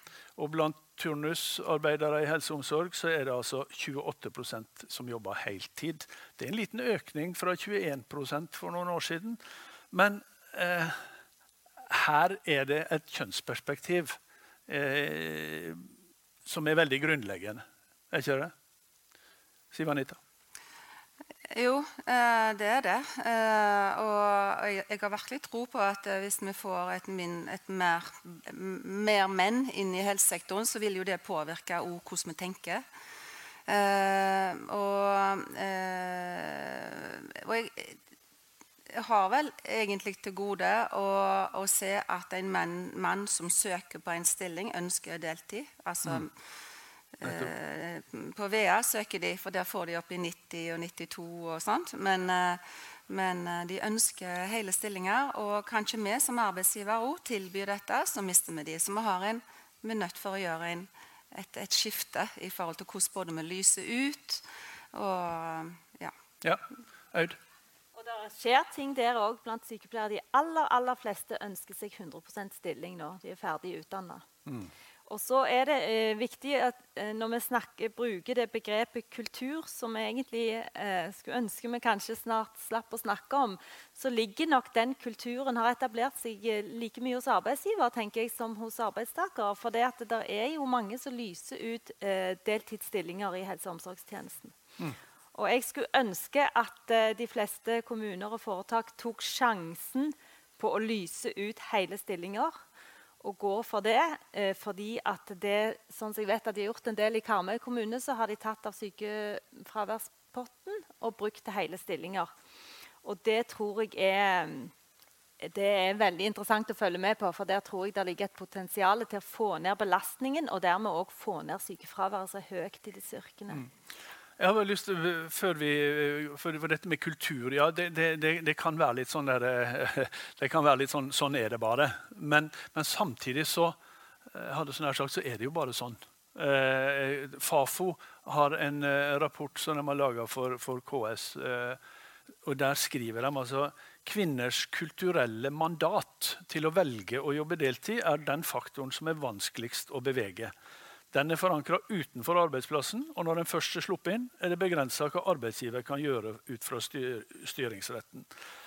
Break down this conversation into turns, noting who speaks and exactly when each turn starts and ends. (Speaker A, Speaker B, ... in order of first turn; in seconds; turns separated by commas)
Speaker A: 0.4-9.4, Speaker A: 9.9-11.0, Speaker A: 11.9-15.9, Speaker A: 16.4-18.5, Speaker A: 19.7-20.2, Speaker B: 21.5-32.8, Speaker B: 33.7-38.0, Speaker B: 38.9-46.4, Speaker B: 47.2-66.1, Speaker A: 47.2-47.5, Speaker A: 66.4-67.4, Speaker C: 68.0-74.2, Speaker A: 74.5-74.7, Speaker C: 75.1-94.5, Speaker C: 95.3-102.6, Speaker C: 103.2-112.3, Speaker C: 113.0-114.7, Speaker C: 115.4-123.7, Speaker A: 124.4-133.8, Speaker A: 134.3-141.8, Speaker A: 142.4-150.5, Speaker A: 151.1-158.3